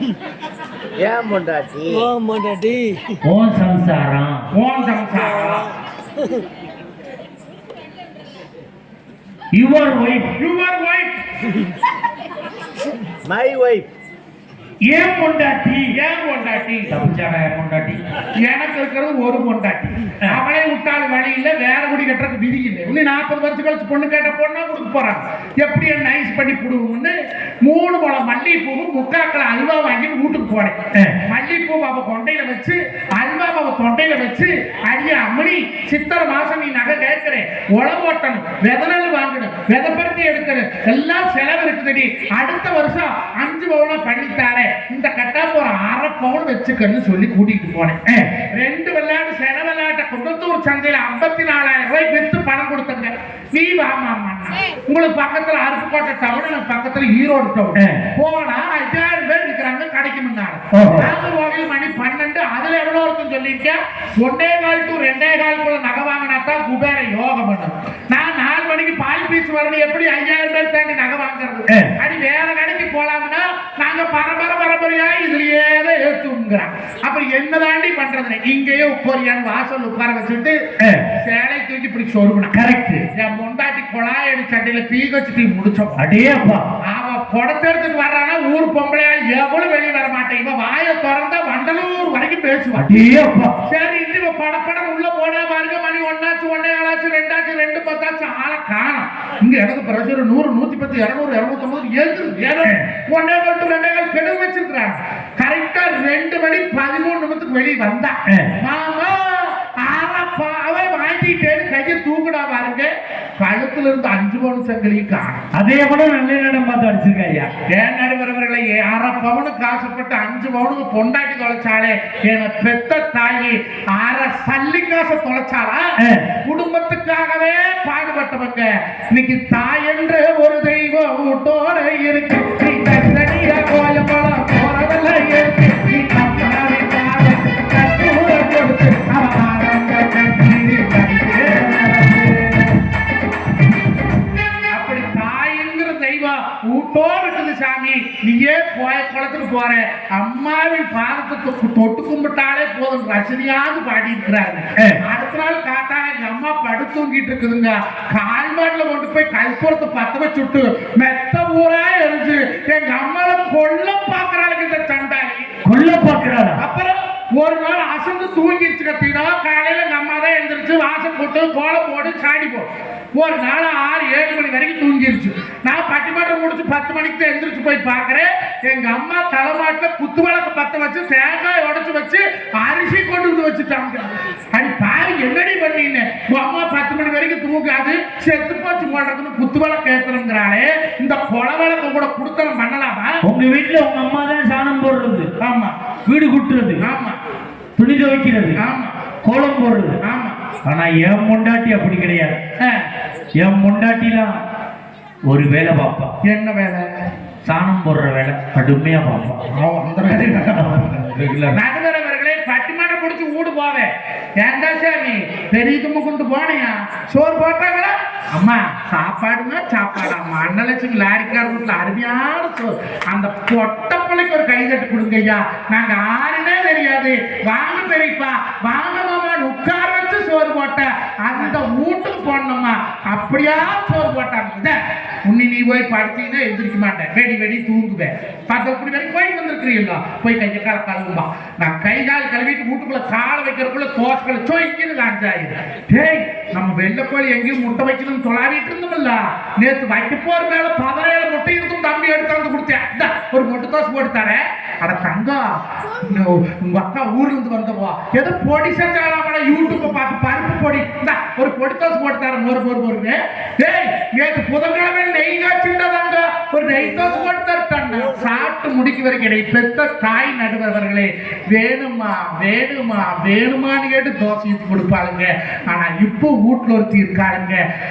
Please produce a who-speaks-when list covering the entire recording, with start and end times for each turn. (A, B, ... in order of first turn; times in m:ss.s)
0:01.0-0:03.1 A
0:03.2-0:04.4 B
0:04.5-0:05.7 C
0:09.5-0:10.3 B
0:10.4-0:11.1 C
0:13.2-0:13.9 A
0:14.8-0:15.9 B
0:15.9-0:16.9 C
0:16.9-0:18.0 B
0:18.4-1:20.6 C
0:48.1-0:48.3 B
0:57.8-0:58.0 B
1:00.7-1:01.1 B
1:11.7-1:11.9 B
1:20.8-1:21.1 B
1:21.2-1:22.5 C
1:22.5-1:23.0 B
1:23.1-1:26.0 C
1:26.0-1:26.6 B
1:26.9-1:32.9 C
1:32.7-1:33.6 B
1:33.7-1:55.4 C
1:48.3-1:48.5 B
1:55.5-1:57.5 B
1:57.7-2:05.9 C
2:06.0-2:06.3 B
2:06.4-2:22.7 C
2:24.7-2:45.5 C
2:45.6-2:46.6 B
2:46.6-3:13.2 C
3:13.2-3:15.3 B
3:15.4-3:15.7 C
3:16.1-3:16.8 B
3:16.8-3:17.2 C
3:17.8-3:18.6 B
3:18.6-3:18.9 C
3:19.2-3:20.0 B
3:20.0-3:20.4 C
3:20.6-3:22.4 B
3:23.4-3:24.3 B
3:25.2-3:26.1 B
3:26.2-3:26.8 C
3:27.4-3:29.4 B
3:29.5-3:30.9 C
3:30.5-3:31.6 B
3:31.5-4:15.4 C
4:16.0-4:37.6 C